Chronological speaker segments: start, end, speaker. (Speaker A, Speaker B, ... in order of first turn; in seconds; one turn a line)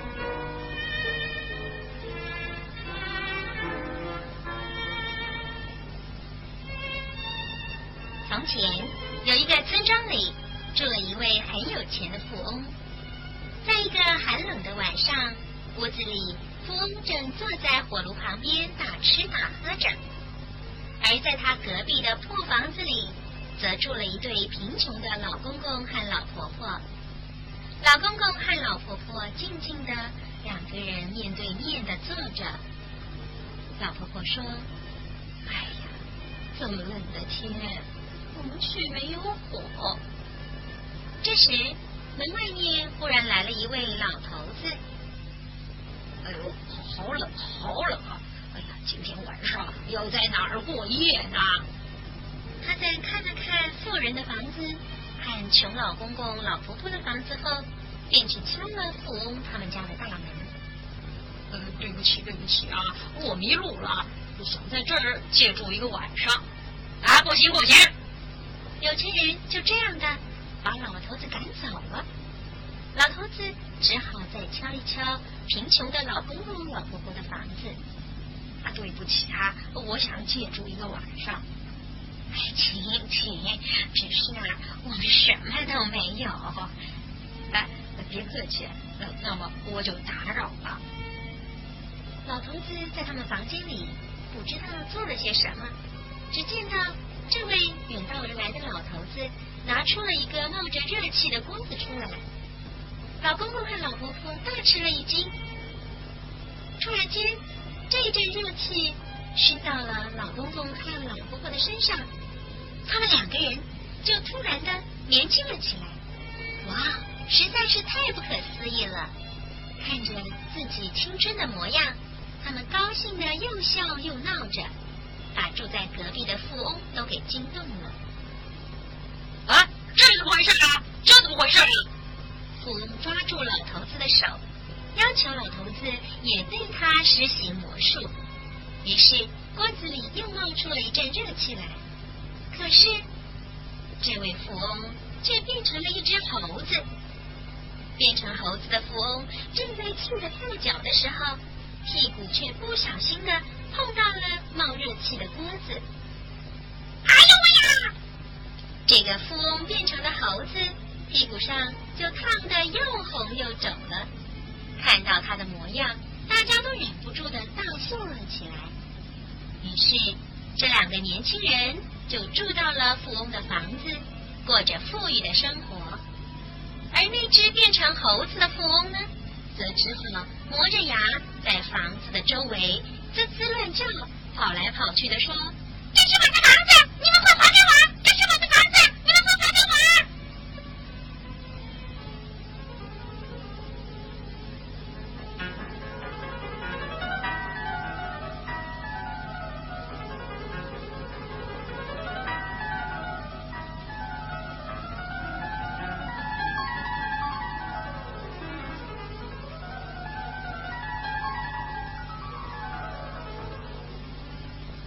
Speaker A: 8.2-12.7
Speaker A: 13.6-20.0
Speaker A: 21.0-26.8
Speaker A: 27.8-32.6
Speaker A: 33.8-34.7
Speaker B: 35.5-35.9
Speaker B: 36.6-37.8
Speaker A: 38.3-40.0
Speaker A: 41.2-44.8
Speaker B: 46.2-51.6
Speaker A: 52.6-60.5
Speaker B: 61.5-66.4
Speaker B: 67.0-67.9
Speaker A: 68.8-72.1
Speaker A: 73.0-77.8
Speaker B: 78.6-81.4
Speaker B: 82.4-86.7
Speaker B: 87.5-90.8
Speaker A: 92.2-95.8
Speaker A: 96.3-102.2
Speaker A: 103.2-105.3
Speaker A: 106.8-112.1
Speaker A: 112.8-116.0
Speaker A: 116.6-119.1
Speaker A: 119.8-124.7
Speaker A: 125.3-128.0
Speaker B: 129.5-131.9
Speaker A: 132.6-134.4
Speaker A: 134.9-138.1
Speaker A: 138.8-141.8
Speaker A: 142.5-143.1
Speaker A: 144.0-146.9
Speaker A: 148.0-155.8
Speaker A: 157.1-157.9
Speaker A: 158.9-164.1
Speaker A: 164.8-168.8
Speaker A: 169.6-176.0
Speaker A: 176.9-190.1